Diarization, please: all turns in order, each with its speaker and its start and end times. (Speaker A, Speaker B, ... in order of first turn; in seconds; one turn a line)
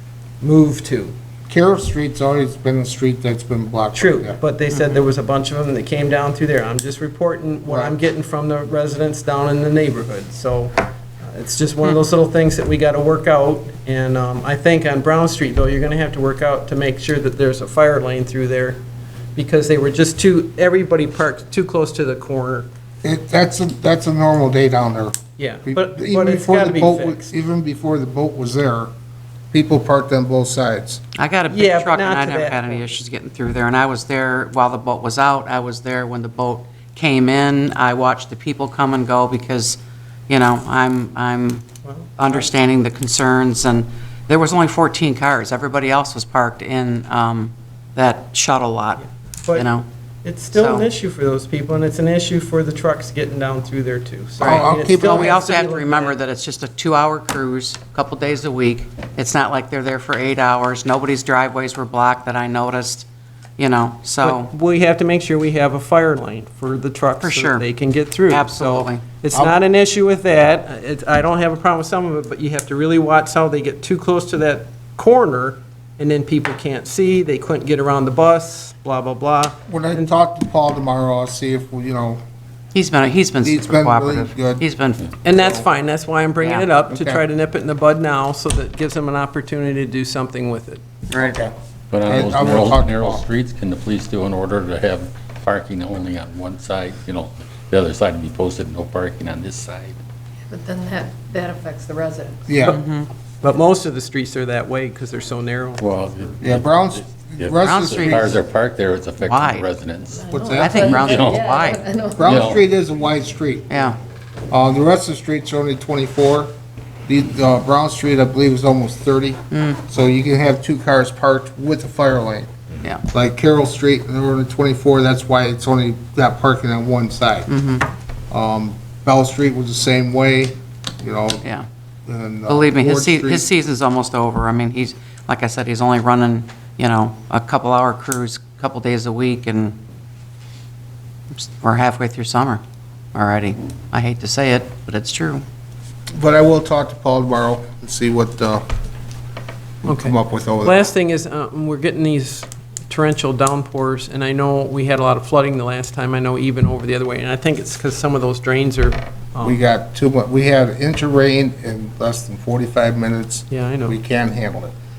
Speaker A: 0.4-1.1
Speaker B: 1.5-4.4
Speaker A: 3.9-18.8
Speaker C: 4.7-5.0
Speaker B: 7.7-7.9
Speaker A: 19.4-22.7
Speaker B: 23.0-28.9
Speaker A: 25.4-27.3
Speaker B: 29.5-31.0
Speaker C: 31.1-41.6
Speaker A: 31.5-32.8
Speaker A: 41.8-42.5
Speaker C: 42.2-49.9
Speaker A: 49.0-49.7
Speaker A: 50.2-56.1
Speaker C: 50.5-50.9
Speaker C: 54.4-63.1
Speaker B: 54.4-55.4
Speaker C: 63.6-64.5
Speaker A: 64.2-80.1
Speaker C: 67.2-67.7
Speaker C: 68.3-69.0
Speaker B: 79.7-82.2
Speaker C: 82.7-85.0
Speaker B: 83.4-84.7
Speaker A: 85.2-90.8
Speaker B: 85.2-85.6
Speaker C: 86.4-86.7
Speaker B: 86.9-87.2
Speaker C: 91.1-91.4
Speaker B: 91.2-91.5
Speaker D: 91.9-100.0
Speaker B: 92.0-93.2
Speaker E: 100.5-102.4
Speaker B: 102.5-102.8
Speaker C: 102.7-103.1
Speaker A: 103.4-105.8
Speaker D: 105.8-111.5
Speaker B: 106.4-108.3
Speaker C: 107.6-108.3
Speaker C: 109.2-109.7
Speaker E: 110.2-112.5
Speaker B: 110.3-111.1
Speaker C: 110.5-111.8
Speaker B: 112.1-113.7
Speaker D: 112.2-112.6
Speaker C: 113.7-114.0
Speaker B: 114.5-116.5
Speaker B: 117.1-122.5
Speaker C: 119.5-119.8
Speaker B: 123.1-127.5
Speaker C: 127.5-127.9
Speaker B: 128.3-131.4
Speaker B: 132.1-133.4
Speaker C: 132.5-139.8
Speaker C: 141.3-142.6
Speaker C: 143.1-145.4
Speaker B: 146.1-148.6
Speaker B: 149.8-150.8
Speaker A: 149.8-159.6
Speaker B: 159.4-164.7
Speaker A: 163.5-164.0